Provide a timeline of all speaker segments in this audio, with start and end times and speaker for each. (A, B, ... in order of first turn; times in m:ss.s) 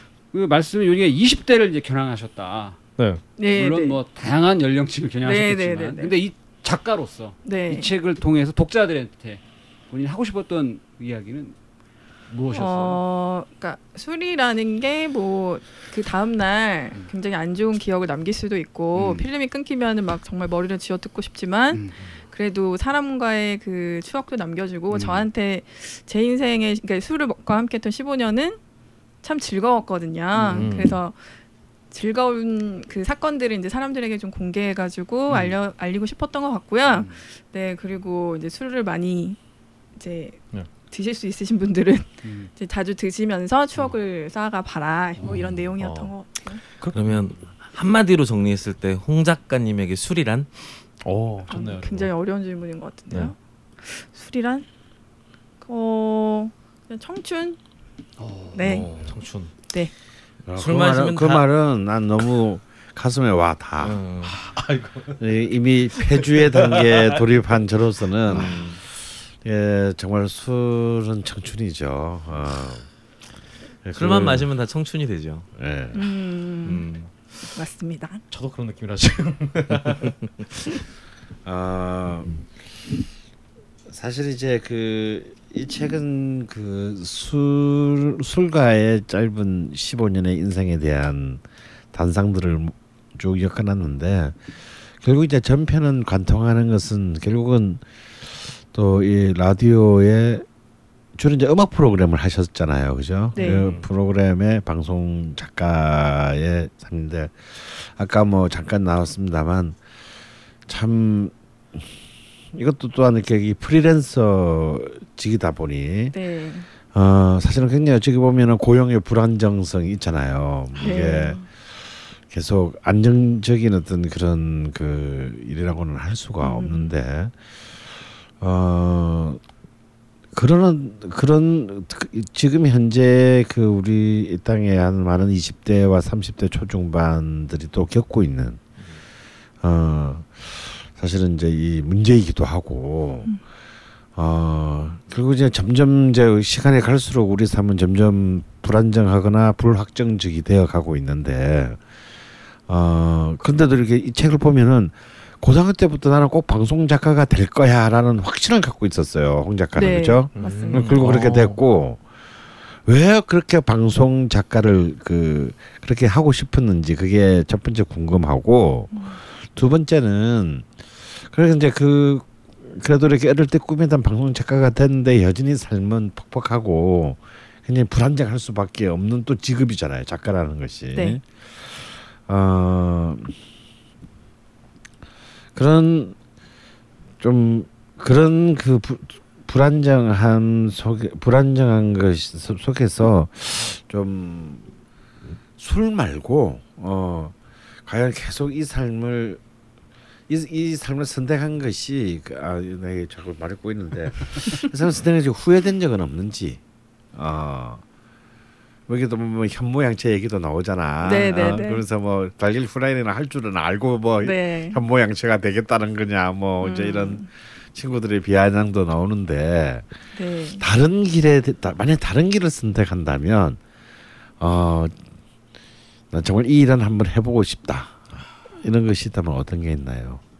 0:00.3-0:02.8 A
0:03.0-0:03.2 B
0:03.4-0:04.0 C
0:03.4-0:11.6 A
0:05.2-0:06.2 C
0:07.4-0:07.9 C
0:12.3-0:13.0 A
0:12.5-0:28.6 C
0:18.9-0:19.3 A
0:21.7-0:22.2 A
0:24.9-0:25.2 A
0:29.2-0:31.2 C
0:30.3-0:30.8 A
0:30.5-0:31.0 B
0:31.9-0:39.4 C
0:35.3-0:35.6 A
0:36.9-0:37.2 A
0:39.9-0:46.6 C
0:42.2-0:42.5 A
0:45.2-0:45.7 A
0:45.8-0:46.1 B
0:46.8-0:47.2 B
0:46.9-0:50.5 D
0:51.0-0:52.1 B
0:51.5-0:54.6 C
0:55.6-0:57.6 C
0:58.2-0:58.7 A
0:58.5-0:58.9 C
0:58.6-0:59.1 D
0:59.0-0:59.5 B
0:59.5-0:59.9 C
1:00.4-1:04.0 E
1:00.5-1:01.5 D
1:03.8-1:05.2 B
1:03.9-1:04.3 D
1:05.2-1:12.9 E
1:06.1-1:07.2 B
1:08.3-1:08.8 D
1:13.8-1:14.5 E
1:13.9-1:15.5 D
1:15.6-1:16.0 E
1:15.9-1:16.9 C
1:16.6-1:17.1 D
1:17.5-1:18.2 C
1:18.3-1:20.6 B
1:21.4-1:22.4 E
1:23.9-1:34.4 E
1:35.0-1:40.4 E
1:41.1-1:49.8 E
1:43.3-1:43.7 C
1:43.4-1:43.8 B
1:50.7-1:51.9 E
1:52.5-1:56.1 E
1:56.1-1:56.7 C
1:56.9-2:07.3 E
2:00.8-2:01.4 C
2:06.4-2:06.8 C
2:08.4-2:09.4 E
2:10.3-2:18.6 E
2:19.6-2:23.4 E
2:24.1-2:31.8 E
2:32.7-2:42.0 E
2:39.7-2:41.0 C
2:40.3-2:41.6 B
2:40.4-2:40.8 A
2:42.8-3:03.4 E
2:48.9-2:49.2 C
3:05.5-3:06.2 E
3:07.2-3:14.7 E
3:15.6-3:19.4 E
3:20.3-3:26.6 E
3:27.1-3:27.8 E
3:28.9-3:39.9 E
3:31.0-3:31.8 C
3:34.2-3:34.8 C
3:36.6-3:37.3 C
3:40.1-3:40.6 C
3:40.6-3:43.6 E
3:44.4-3:45.0 E
3:46.1-3:50.2 E